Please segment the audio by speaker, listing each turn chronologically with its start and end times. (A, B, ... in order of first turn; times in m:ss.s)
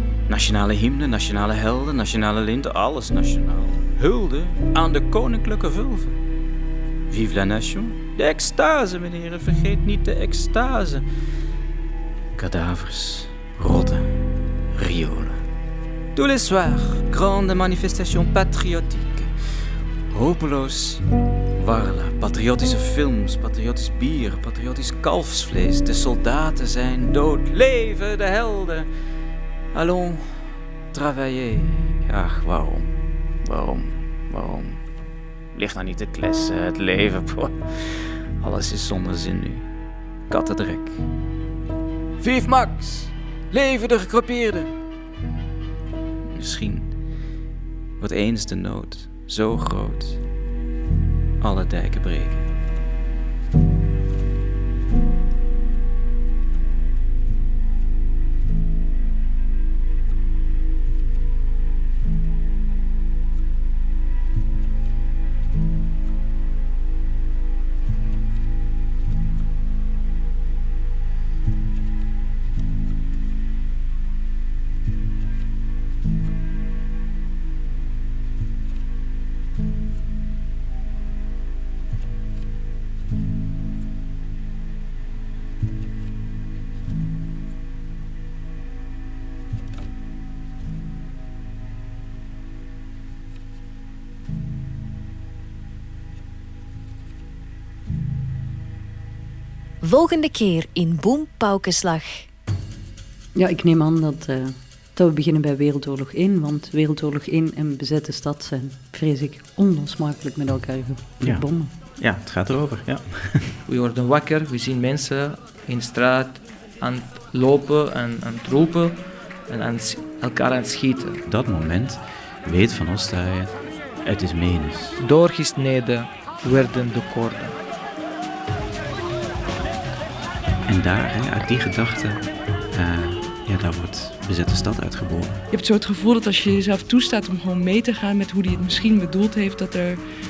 0:00.3-0:06.2 A
0:07.1-0:11.0 A
0:12.4-0:15.4 A
0:16.1-0:19.3 A
0:20.1-0:21.0 A
0:21.6-0:28.9 A
0:29.7-0:32.9 A
0:33.4-0:34.8 A
0:35.5-0:39.7 A
0:40.3-0:41.0 A
0:42.2-0:44.7 A
0:46.3-0:46.9 A
0:48.0-0:50.2 A
0:51.4-0:52.5 A
1:39.8-1:42.3 B
1:43.3-1:51.7 C
1:51.2-1:53.5 A
1:53.7-2:01.2 D
2:01.2-2:05.0 A
2:05.0-2:07.6 D
2:10.7-2:15.4 A
2:15.5-2:20.0 E